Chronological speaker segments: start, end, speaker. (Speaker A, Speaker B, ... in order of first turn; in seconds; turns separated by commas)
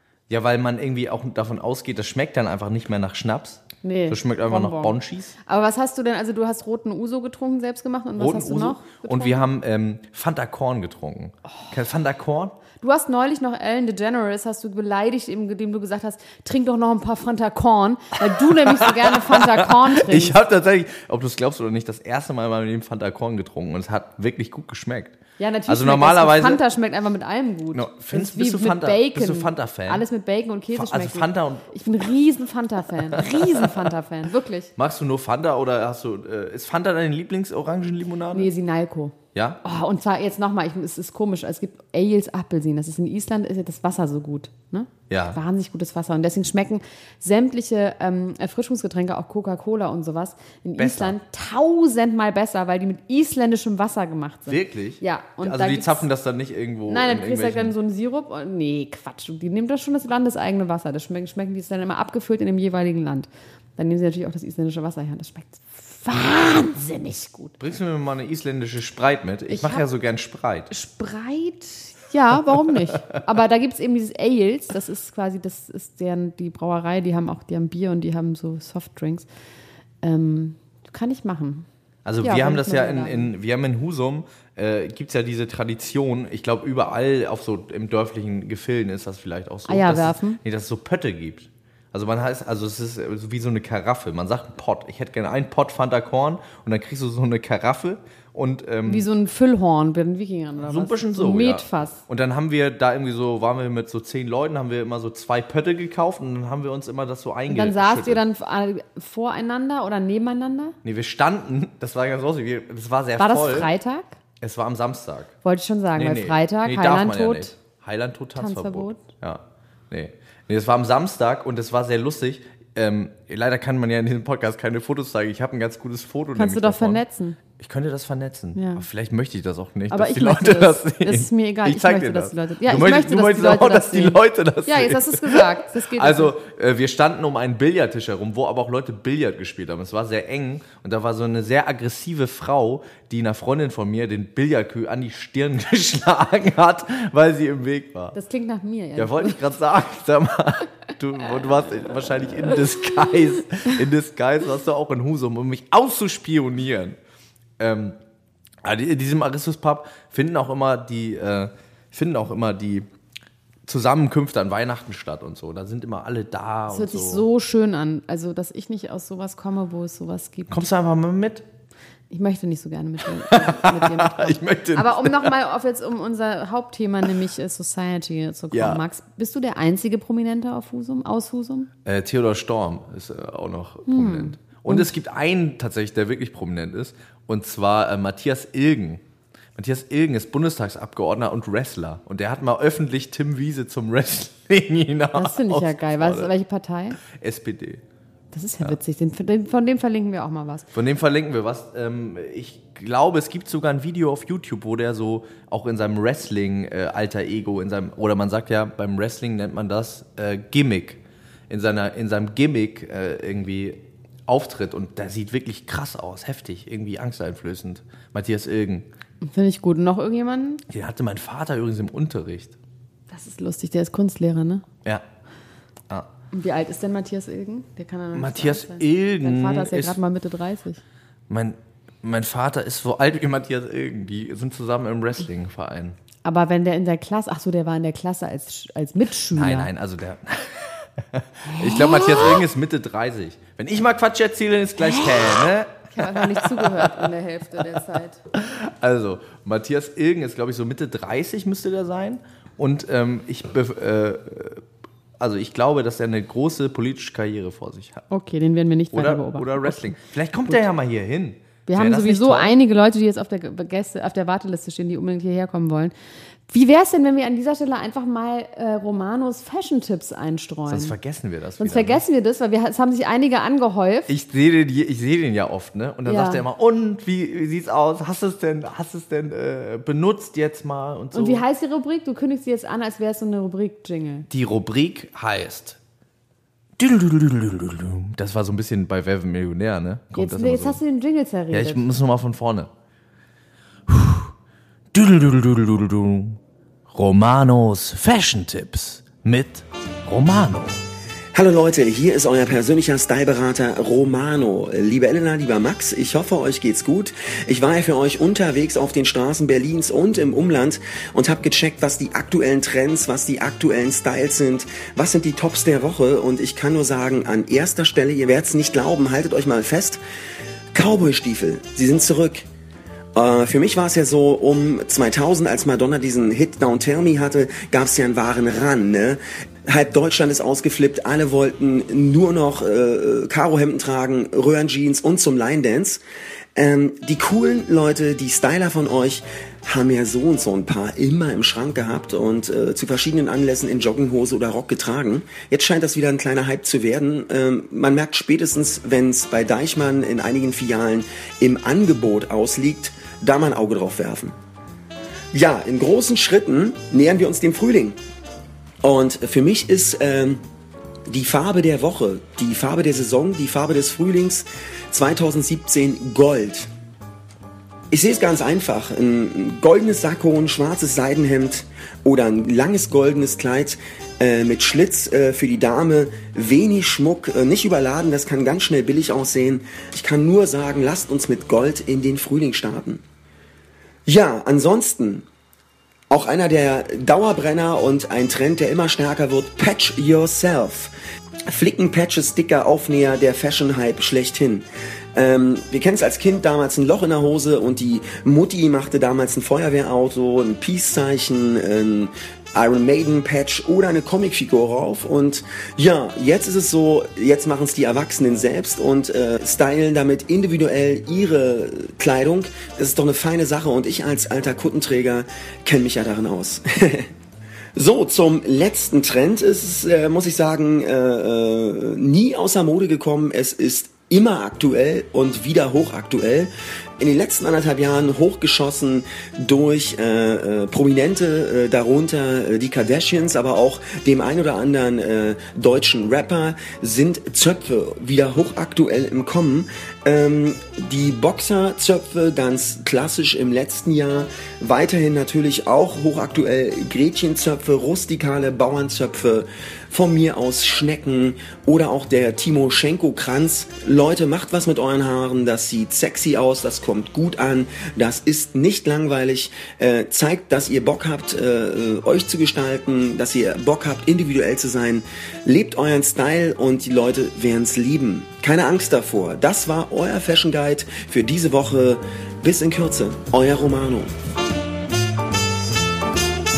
Speaker A: 0.3-5.3, Speaker B: 3.8-9.4, Speaker A: 8.2-12.6, Speaker B: 12.8-20.4, Speaker A: 18.5-25.2, Speaker B: 25.4-34.7, Speaker A: 25.7-26.6, Speaker A: 27.7-30.0, Speaker A: 30.7-31.7, Speaker A: 33.1-33.7, Speaker A: 34.8-38.5, Speaker B: 38.3-56.1, Speaker A: 39.3-39.6, Speaker A: 45.1-45.4, Speaker A: 50.8-51.1, Speaker A: 54.5-57.7, Speaker B: 56.9-67.6, Speaker A: 67.6-70.7, Speaker B: 69.5-69.9, Speaker B: 70.7-79.3, Speaker B: 80.0-81.7, Speaker A: 82.0-99.1, Speaker B: 82.2-83.3, Speaker B: 89.7-90.4, Speaker B: 98.9-102.0, Speaker A: 100.6-108.2, Speaker B: 107.5-110.8, Speaker A: 110.8-113.7, Speaker B: 113.2-114.2, Speaker A: 114.4-115.3, Speaker B: 115.4-117.5, Speaker A: 116.0-148.2, Speaker B: 118.4-119.1, Speaker B: 126.3-127.4, Speaker B: 128.6-128.8, Speaker B: 129.9-136.3, Speaker B: 148.2-149.5, Speaker A: 149.0-157.0, Speaker A: 157.6-158.0, Speaker A: 158.6-162.9, Speaker A: 163.7-167.3, Speaker B: 166.7-170.5, Speaker A: 170.5-171.5, Speaker B: 172.1-181.7, Speaker A: 173.1-175.4, Speaker A: 178.5-178.8, Speaker A: 181.8-189.0, Speaker B: 183.9-184.9, Speaker A: 189.6-196.3, Speaker B: 195.2-197.0, Speaker A: 197.0-197.8, Speaker B: 198.3-200.7, Speaker A: 200.7-218.9, Speaker B: 219.2-220.6, Speaker A: 220.7-222.6, Speaker B: 223.1-224.6, Speaker B: 226.3-230.8, Speaker A: 228.1-230.0, Speaker A: 231.3-236.0, Speaker B: 236.2-239.7, Speaker A: 239.3-247.1, Speaker B: 241.5-242.4, Speaker B: 244.9-248.2, Speaker A: 248.3-254.6, Speaker A: 255.2-258.0, Speaker B: 258.1-260.0, Speaker A: 258.9-262.6, Speaker B: 261.7-265.9, Speaker B: 266.5-270.9, Speaker A: 270.7-272.0, Speaker B: 271.6-274.1, Speaker A: 274.1-281.4, Speaker B: 276.1-276.4, Speaker B: 281.1-284.3, Speaker A: 284.3-285.8, Speaker A: 286.8-290.8, Speaker B: 290.1-291.9, Speaker A: 291.5-292.7, Speaker A: 293.9-294.3, Speaker A: 294.9-300.8, Speaker C: 301.3-320.0, Speaker C: 320.7-322.4, Speaker C: 323.1-336.0, Speaker C: 336.6-354.4, Speaker C: 355.3-358.0, Speaker C: 358.8-360.4, Speaker C: 361.1-366.7, Speaker C: 367.9-383.0, Speaker C: 384.1-385.2, Speaker C: 386.1-390.9, Speaker C: 391.5-417.1, Speaker C: 417.8-474.1